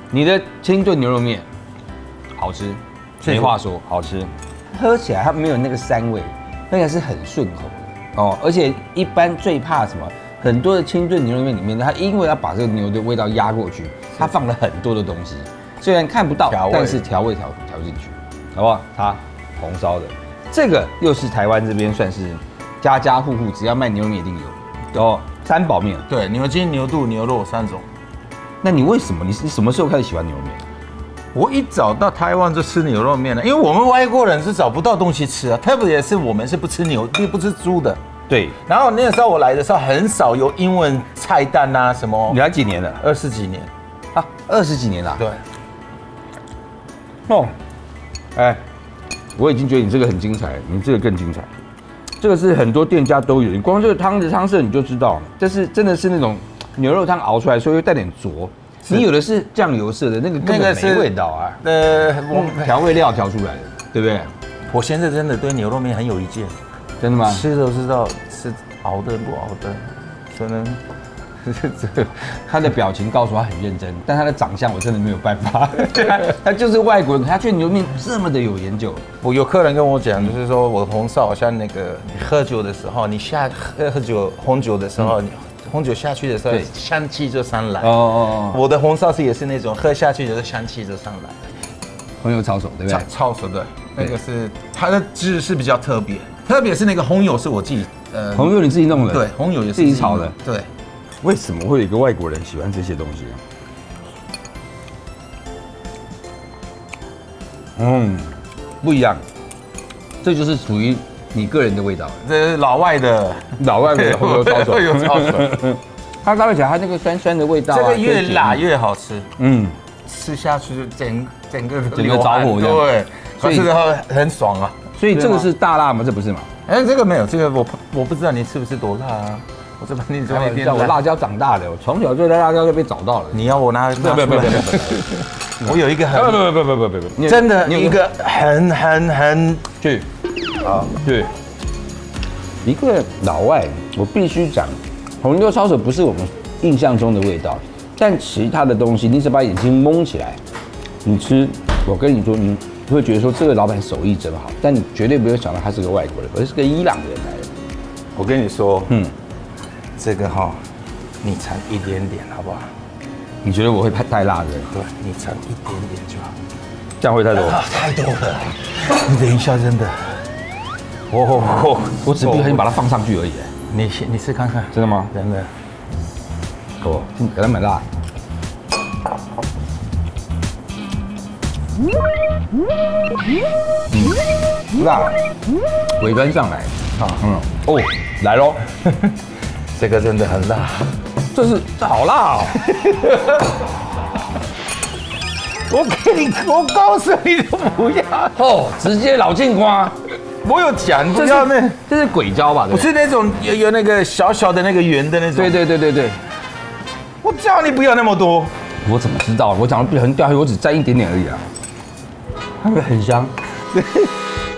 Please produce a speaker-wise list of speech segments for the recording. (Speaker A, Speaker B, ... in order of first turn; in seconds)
Speaker A: 0.1-1.4, 2.4-26.0, 28.6-30.6, 38.3-38.5, 42.3-43.0, 44.1-45.2, 47.3-47.5, 48.3-48.6, 49.4-51.5, 52.2-61.6, 62.3-64.3, 67.0-67.4, 72.5-79.0, 87.8-88.6, 92.2-93.1, 98.3-100.3, 101.2-103.4, 107.8-109.2, 110.2-112.2, 113.6-118.6, 119.4-119.7, 121.9-122.9, 123.4-123.7, 125.0-126.5, 130.3-138.0, 139.8-140.1, 140.6-141.3, 142.6-150.4, 151.0-157.5, 163.4-164.7, 167.0-167.6, 171.3-173.5, 174.7-175.1, 176.8-177.8, 183.9-184.2, 184.7-185.2, 186.0-188.6, 191.3-192.6, 198.3-199.9, 201.1-202.9, 205.3-206.2, 208.8-211.4, 212.6-214.1
Speaker B: 3.2-3.5, 16.5-17.0, 26.1-27.8, 31.3-38.0, 38.6-42.4, 43.0-43.7, 60.4-61.1, 61.6-63.0, 64.7-66.5, 67.2-70.8, 71.4-72.3, 79.2-91.4, 92.9-100.7, 112.2-115.5, 117.7-119.3, 120.0-125.5, 126.7-131.0, 133.3-135.1, 135.6-136.5, 137.2-139.6, 158.2-158.9, 160.0-160.6, 161.2-162.7, 164.7-166.3, 167.4-170.2, 171.1-172.6, 173.7-175.5, 189.7-190.9, 192.7-193.4, 195.7-198.4, 200.4-201.8, 202.7-205.6, 207.2-208.5